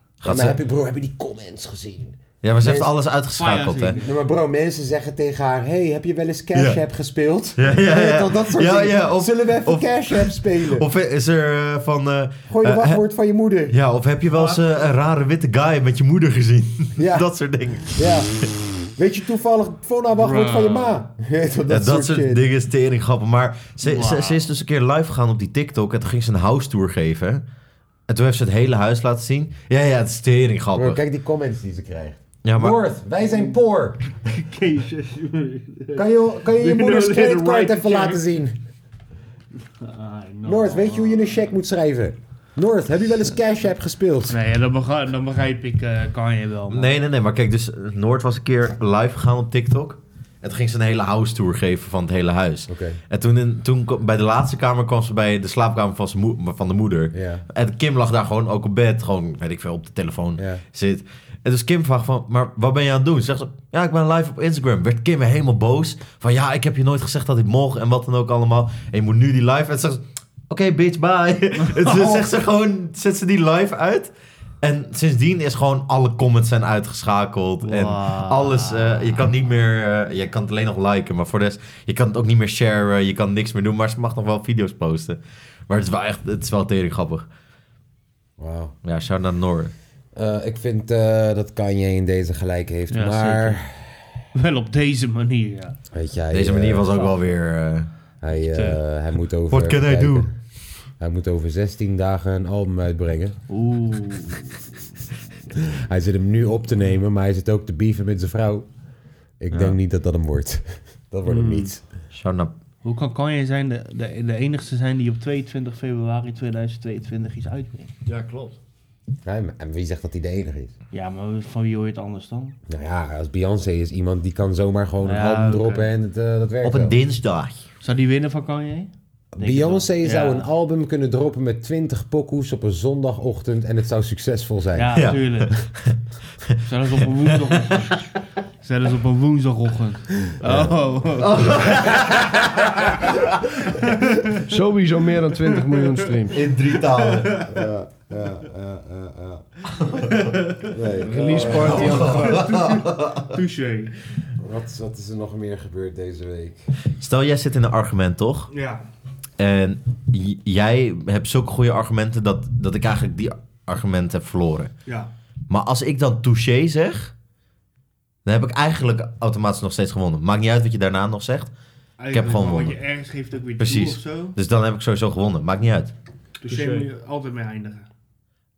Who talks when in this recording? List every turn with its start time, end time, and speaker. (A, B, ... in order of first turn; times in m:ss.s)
0:00.2-0:00.6 A
0:00.2-0:02.9 B
0:02.4-0:04.0 A
0:03.3-0:04.2 C
0:04.0-0:10.9 B
0:06.5-0:06.8 A
0:07.6-0:13.0 A
0:12.5-0:13.8 B
0:13.7-0:18.0 A
0:14.3-0:14.6 C
0:17.0-0:17.3 B
0:17.8-0:22.4 B
0:20.2-0:20.9 D
0:21.7-0:27.4 A
0:23.8-0:24.4 C
0:28.1-0:31.0 A
0:30.7-0:34.0 B
0:32.4-0:32.8 A
0:33.3-0:33.5 C
0:34.2-0:38.2 C
0:36.0-0:38.6 B
0:39.7-0:41.5 C
0:40.4-0:44.4 B
0:44.3-0:46.9 C
0:46.7-1:27.3 A
0:52.7-0:53.0 B
0:57.1-0:57.4 B
1:00.4-1:00.6 B
1:11.8-1:12.2 C
1:17.6-1:19.3 C
1:28.4-1:28.7 B
1:28.8-1:29.7 A
1:30.1-1:34.1 B
1:32.9-1:33.6 C
1:34.3-1:35.8 C
1:35.9-1:37.0 B
1:36.3-1:37.9 A
1:38.2-1:43.4 B
1:39.5-1:40.3 A
1:43.5-1:44.7 C
1:45.7-1:48.7 B
1:49.4-1:51.8 B
1:51.2-1:51.7 D
1:52.1-1:52.5 A
1:52.8-1:57.9 C
1:58.0-1:58.6 D
1:59.2-2:00.7 B
2:00.9-2:02.6 C
2:02.7-2:07.0 B
2:05.0-2:05.9 C
2:06.6-2:07.6 A
2:07.8-2:10.5 C
2:09.3-2:15.2 B
2:14.7-2:15.5 C
2:15.0-2:15.9 A
2:16.7-2:18.0 C
2:17.5-2:17.9 A
2:18.6-2:21.7 C
2:20.4-2:22.6 A
2:22.0-2:22.5 B
2:23.7-2:24.4 C
2:24.5-2:26.4 D
2:26.3-2:27.4 A
2:27.0-2:27.6 C
2:27.5-2:29.5 B
2:29.8-2:30.3 A
2:30.1-2:30.7 C
2:30.7-2:32.2 B
2:31.0-2:32.4 D
2:31.4-2:33.3 A
2:32.0-2:33.9 C
2:34.4-2:36.7 B
2:37.0-2:38.5 A
2:38.5-2:38.8 C
2:39.4-2:44.7 A
2:45.5-2:47.1 A
2:48.2-2:51.5 A
2:52.0-2:54.4 C
2:52.1-2:52.8 A
2:53.6-2:55.9 A
2:56.4-2:57.9 C
2:56.5-2:56.9 D